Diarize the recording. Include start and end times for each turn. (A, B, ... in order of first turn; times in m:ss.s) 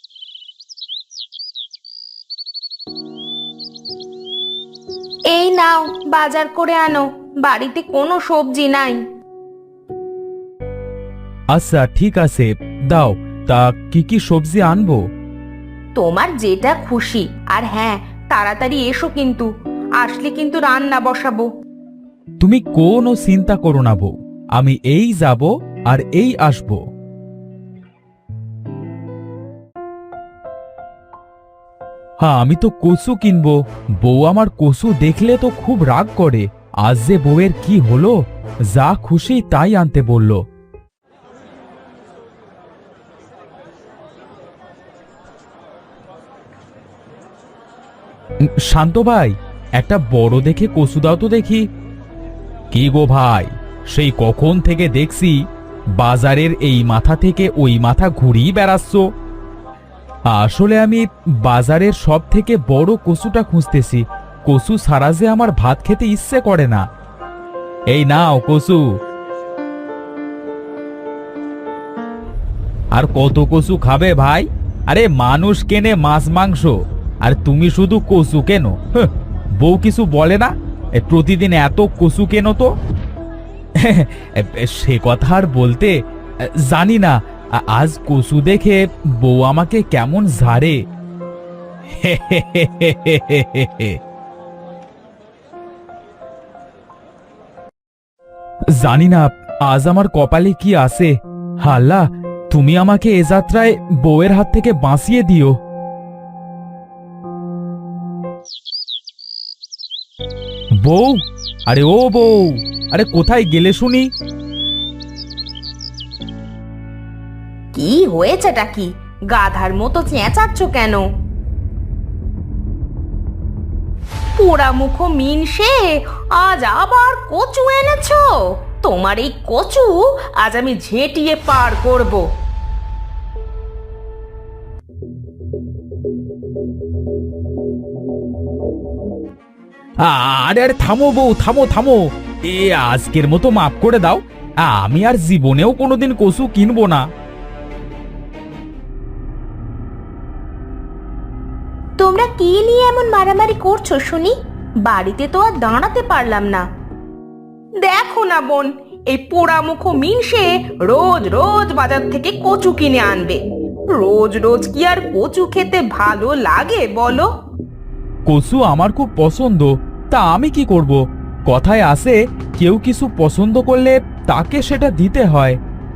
0:05.3-0:09.0 A
0:11.5-0:15.0 B
0:16.0-0:19.5 A
0:20.0-0:21.5 A
0:22.4-0:26.8 B
0:32.2-0:38.2 B
0:38.7-0:40.4 B
0:48.6-0:51.7 B
0:52.7-0:55.4 B
0:56.0-0:59.0 B
1:00.3-1:06.8 B
1:07.9-1:08.8 B
1:12.9-1:22.7 B
1:23.8-1:26.0 B
1:26.6-1:30.8 B
1:32.0-1:34.0 B
1:38.8-1:45.5 B
1:50.8-1:54.1 B
1:57.7-2:01.0 A
2:04.4-2:05.8 A
2:06.4-2:08.3 A
2:08.8-2:12.2 A
2:20.0-2:27.0 B
2:32.0-2:34.3 A
2:34.8-2:36.6 A
2:37.8-2:43.4 A
2:43.9-2:47.3 A
2:48.3-2:55.6 B